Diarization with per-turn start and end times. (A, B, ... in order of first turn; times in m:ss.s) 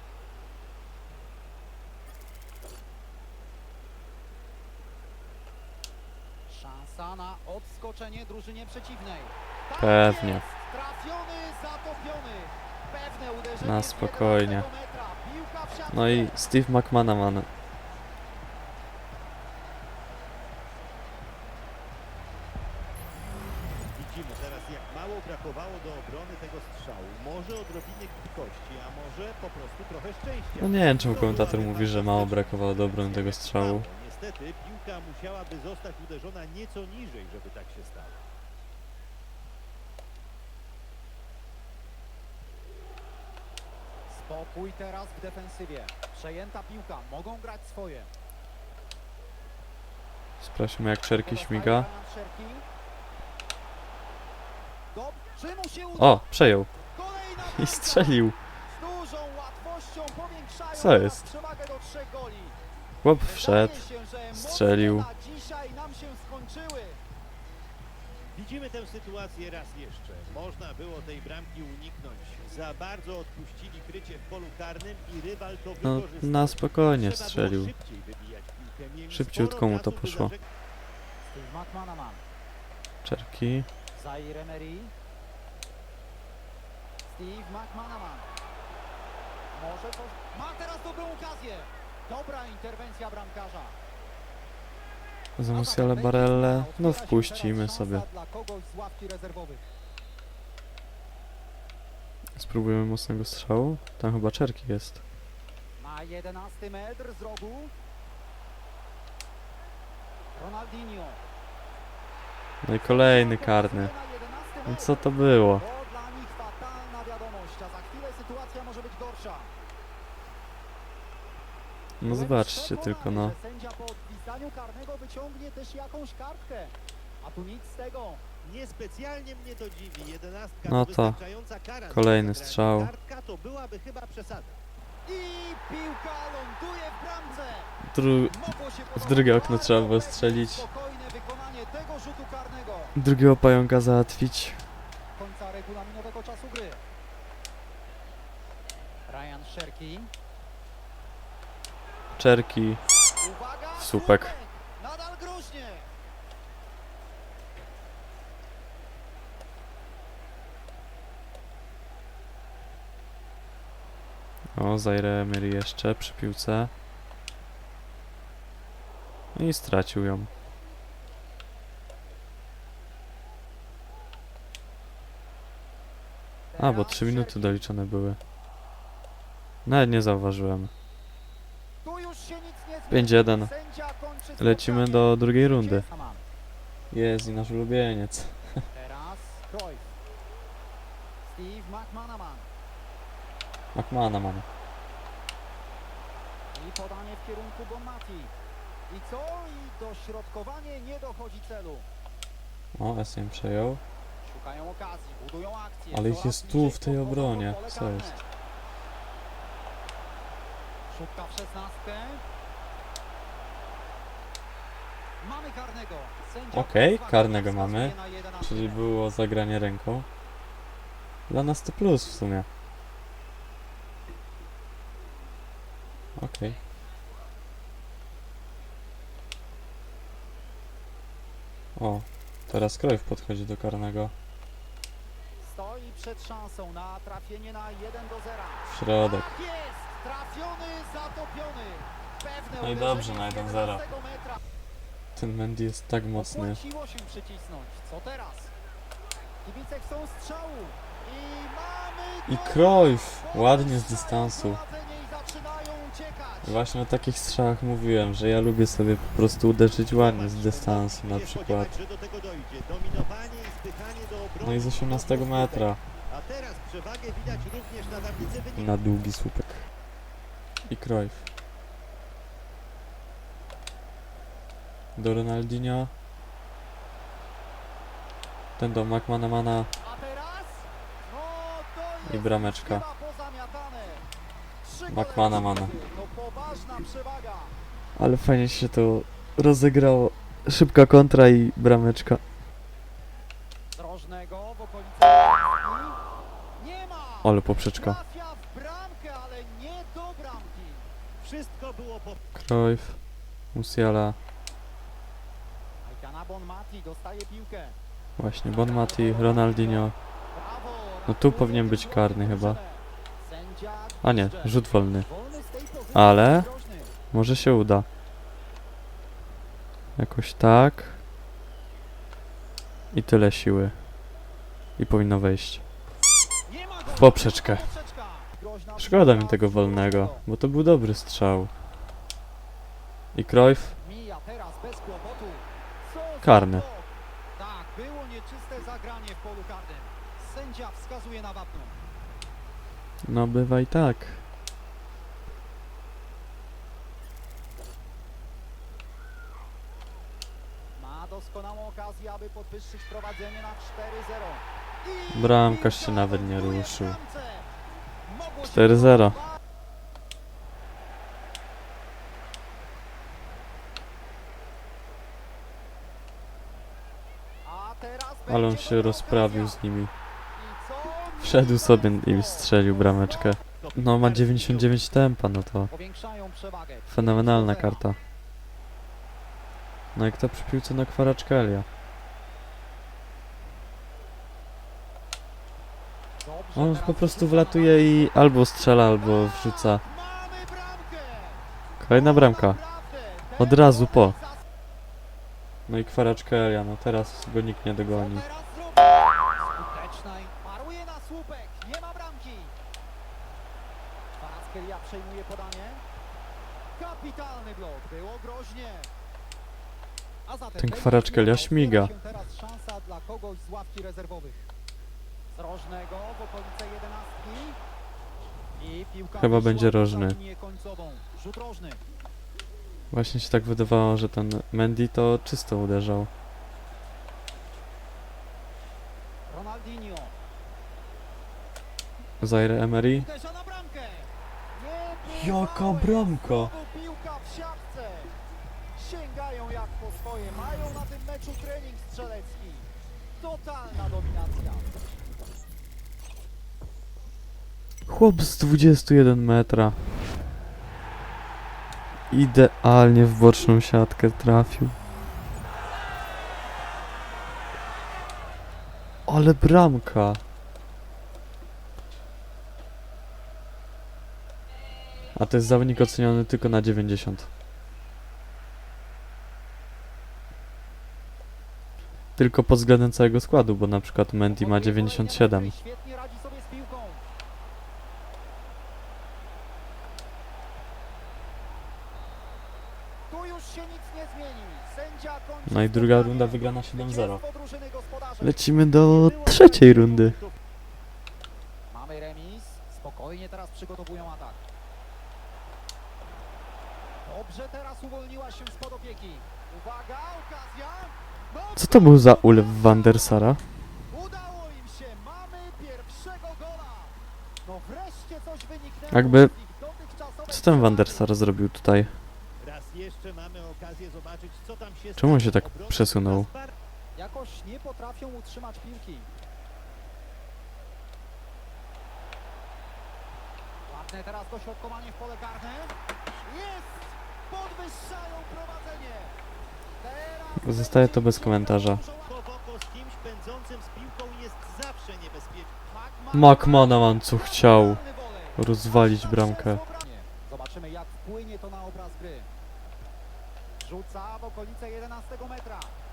0:06.5-0:16.4 A
0:09.8-0:10.4 B
0:13.6-0:14.7 B
0:15.9-0:17.5 B
0:24.0-0:38.3 C
0:30.6-0:33.9 B
0:44.1-0:48.1 A
0:50.4-0:51.9 B
0:51.1-0:52.6 A
0:54.9-0:56.2 A
0:56.0-0:56.7 B
0:56.9-1:02.6 A
0:57.4-0:58.4 B
1:00.7-1:01.3 B
1:03.0-1:05.1 B
1:03.2-1:07.0 A
1:08.3-1:20.5 C
1:15.8-1:17.7 B
1:19.1-1:20.3 B
1:21.2-1:22.2 A
1:23.0-1:23.7 B
1:24.0-1:24.9 A
1:27.1-1:28.3 A
1:29.5-1:33.8 A
1:35.4-1:38.1 B
1:35.5-1:39.7 A
1:42.4-1:45.0 B
1:45.8-1:47.7 A
1:50.4-1:51.2 A
1:52.6-1:53.9 B
1:52.8-1:59.5 A
1:54.7-1:55.6 B
2:02.0-2:03.4 B
2:02.1-2:08.2 A
2:08.4-2:14.6 C
2:10.6-2:11.2 B
2:11.9-2:12.9 B
2:15.1-2:23.0 A
2:17.9-2:18.4 B
2:19.0-2:20.7 B
2:23.0-2:24.6 B
2:25.2-2:26.8 A
2:29.1-2:30.1 A
2:32.2-2:32.8 B
2:33.2-2:35.9 A
2:33.8-2:34.4 B
2:44.6-2:46.7 B
2:49.4-2:50.3 B
2:56.5-2:57.6 A
2:56.6-2:58.2 B
2:59.6-3:00.7 B
3:01.8-3:06.2 A
3:02.9-3:03.5 B
3:04.4-3:05.8 B
3:06.9-3:08.7 B
3:08.7-3:09.9 A
3:11.2-3:12.5 A
3:13.7-3:14.5 B
3:16.5-3:18.3 A
3:18.9-3:21.9 A
3:22.8-3:23.8 B
3:24.2-3:28.2 A
3:25.9-3:28.2 B
3:30.9-3:32.2 A
3:35.2-3:38.8 A
3:36.5-3:40.1 B
3:41.3-3:42.5 B
3:46.2-3:46.6 B
3:51.8-3:54.1 B
3:55.4-4:04.4 A
3:58.7-3:59.3 B
4:02.6-4:03.8 B
4:05.2-4:06.6 B
4:06.2-4:08.5 A
4:09.4-4:16.6 A
4:12.3-4:14.6 B
4:16.4-4:21.8 B
4:19.9-4:28.8 C
4:24.4-4:25.8 B
4:28.6-4:29.7 B
4:30.7-4:31.3 B
4:35.0-4:35.9 B
4:38.6-4:39.7 B
4:39.8-4:44.0 A
4:42.1-4:42.8 B
4:44.6-4:47.5 A
4:44.9-4:45.7 B
4:48.0-4:52.2 B
4:53.7-4:56.0 A
4:56.6-5:00.9 A
4:57.2-4:58.0 B
5:01.2-5:02.2 C
5:02.4-5:03.0 B
5:03.5-5:04.2 B
5:05.8-5:07.8 A
5:08.2-5:10.0 B
5:08.5-5:16.9 A
5:11.1-5:12.6 B
5:14.0-5:15.1 B
5:15.9-5:16.5 B
5:17.1-5:17.9 B
5:20.0-5:21.0 B
5:22.9-5:23.8 B
5:24.8-5:25.6 B
5:26.5-5:30.2 A
5:26.9-5:27.7 B
5:28.8-5:31.5 B
5:33.1-5:33.8 B
5:33.8-5:41.8 A
5:36.2-5:36.6 B
5:43.0-5:44.2 B
5:50.8-5:57.5 A
5:55.1-5:57.0 B
5:58.1-5:59.4 A
5:58.4-5:59.2 B
6:07.4-6:09.6 A
6:08.3-6:09.9 B
6:10.3-6:13.4 A
6:11.2-6:15.7 B
6:13.6-6:15.0 C
6:15.7-6:17.8 A
6:16.9-6:18.0 B
6:20.0-6:21.7 B
6:26.2-6:31.4 A
6:26.6-6:29.8 B
6:31.8-6:32.6 B
6:31.9-6:34.4 A
6:33.4-6:34.2 B
6:35.7-6:38.2 B
6:37.9-6:42.5 A
6:44.2-6:45.8 A
6:46.8-6:48.9 A
6:50.3-6:54.5 A
6:50.6-6:51.9 B
6:55.3-6:57.6 A
6:58.6-7:01.8 A
6:59.2-7:00.2 B
7:02.9-7:06.1 B
7:09.3-7:10.1 A
7:12.2-7:13.1 B
7:12.9-7:18.1 A
7:15.1-7:16.5 B
7:18.8-7:24.7 A
7:27.9-7:29.8 B
7:32.1-7:34.8 B
7:39.1-7:40.2 B
7:45.2-7:47.3 B
7:52.2-7:55.5 B
7:54.3-7:57.0 A
8:03.1-8:08.4 A
8:05.5-8:07.2 B
8:08.2-8:10.2 B
8:08.7-8:10.4 C
8:11.7-8:14.4 A
8:17.0-8:23.3 A
8:21.6-8:23.4 B
8:23.9-8:31.1 A
8:28.9-8:29.3 B
8:30.3-8:32.0 B
8:32.4-8:36.6 C
8:35.0-8:36.3 B
8:37.0-8:39.1 A
8:43.7-8:49.2 A
8:49.8-8:52.2 A
8:50.4-8:51.8 B
8:52.1-8:55.6 C
8:55.7-9:02.3 A
8:56.1-8:57.8 B
8:58.4-8:59.6 B
9:03.6-9:05.8 A